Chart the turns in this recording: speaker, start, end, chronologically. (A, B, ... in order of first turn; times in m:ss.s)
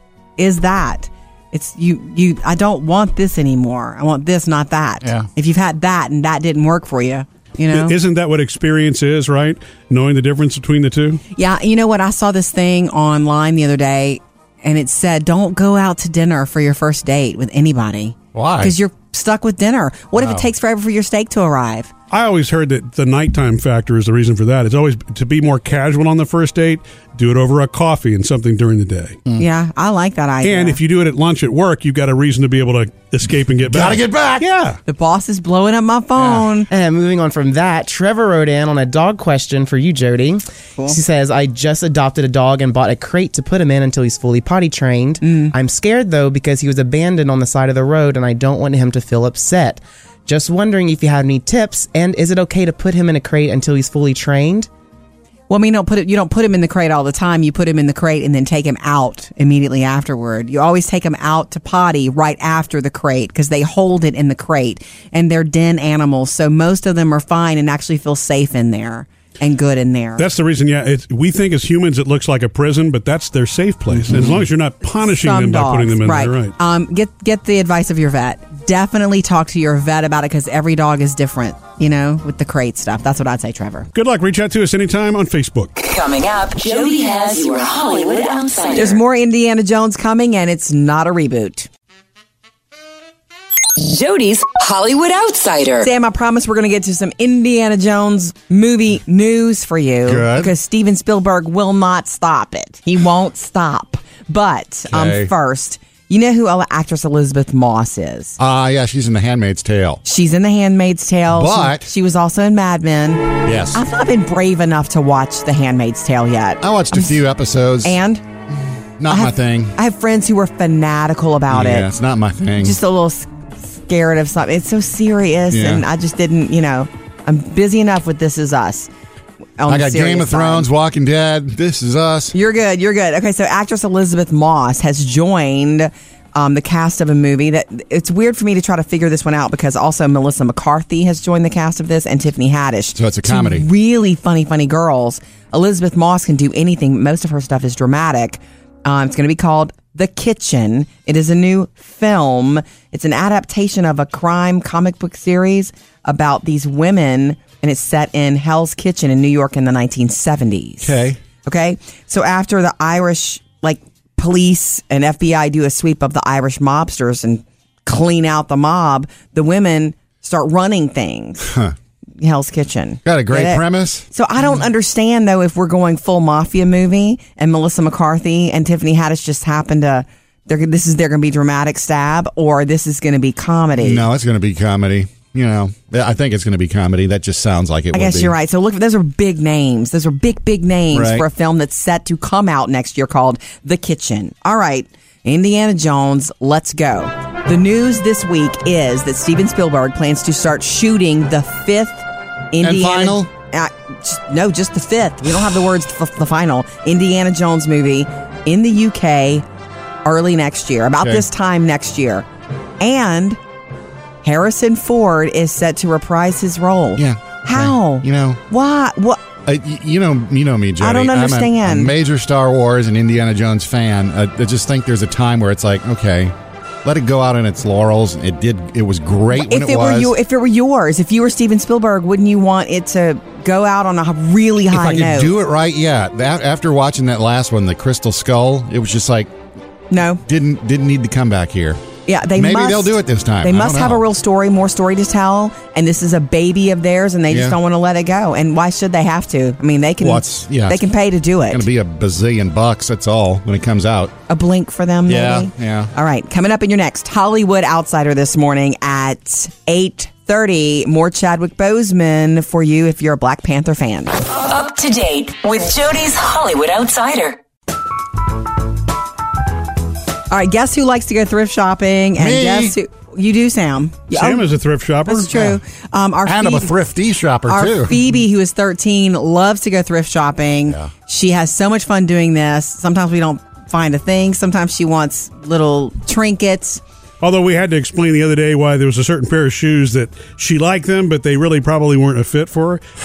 0:00.4-0:07.9 A
0:05.0-0:05.3 B
0:07.7-0:11.2 C
0:11.4-0:21.9 A
0:18.3-0:18.7 B
0:20.1-0:20.5 B
0:22.1-0:29.2 C
0:29.4-0:30.8 A
0:30.4-0:34.8 C
0:33.6-0:34.4 B
0:34.8-0:36.7 A
0:36.2-0:36.5 B
0:36.7-0:54.7 D
0:45.2-0:45.5 A
0:55.5-1:10.2 A
1:10.2-1:16.5 C
1:14.1-1:14.4 B
1:15.0-1:23.9 A
1:23.9-1:25.7 C
1:25.8-1:29.0 E
1:28.7-1:31.7 A
1:33.7-1:35.9 E
1:35.8-1:48.4 A
1:40.0-1:40.5 B
1:44.9-1:45.3 B
1:48.4-1:50.0 B
1:50.0-1:57.2 A
1:51.3-1:51.9 B
1:53.4-1:53.8 B
1:56.6-1:58.0 B
1:57.8-1:58.2 A
1:59.0-1:59.7 B
1:59.1-2:01.9 A
2:01.5-2:02.8 B
2:02.6-2:08.9 A
2:05.5-2:05.8 B
2:09.6-2:10.7 A
2:09.7-2:12.3 B
2:12.3-2:51.5 A
2:22.9-2:23.7 B
2:40.8-2:41.2 B
2:51.4-2:51.7 B
2:52.2-3:04.0 A
2:53.0-2:54.0 B
3:03.8-3:08.3 B
3:07.9-3:29.4 A
3:10.9-3:11.2 B
3:22.6-3:23.3 B
3:30.0-3:32.2 A
3:32.8-3:33.4 A
3:34.2-3:39.2 A
3:37.0-3:38.4 B
3:39.4-3:50.1 B
3:40.8-3:41.9 A
3:49.3-3:55.3 A
3:54.7-3:59.3 B
3:59.9-4:00.2 A
4:00.2-4:01.8 B
4:02.0-4:11.6 A
4:02.3-4:04.0 B
4:07.3-4:07.6 B
4:10.0-4:10.8 B
4:11.5-4:14.1 B
4:14.3-4:24.1 A
4:15.0-4:15.9 B
4:24.3-4:27.4 E
4:30.3-4:34.5 A
4:32.2-4:32.8 B
4:34.1-4:35.3 C
4:35.0-4:36.7 A
4:35.3-4:35.6 B
4:36.2-4:38.0 B
4:37.5-4:46.8 A
4:47.2-4:52.8 C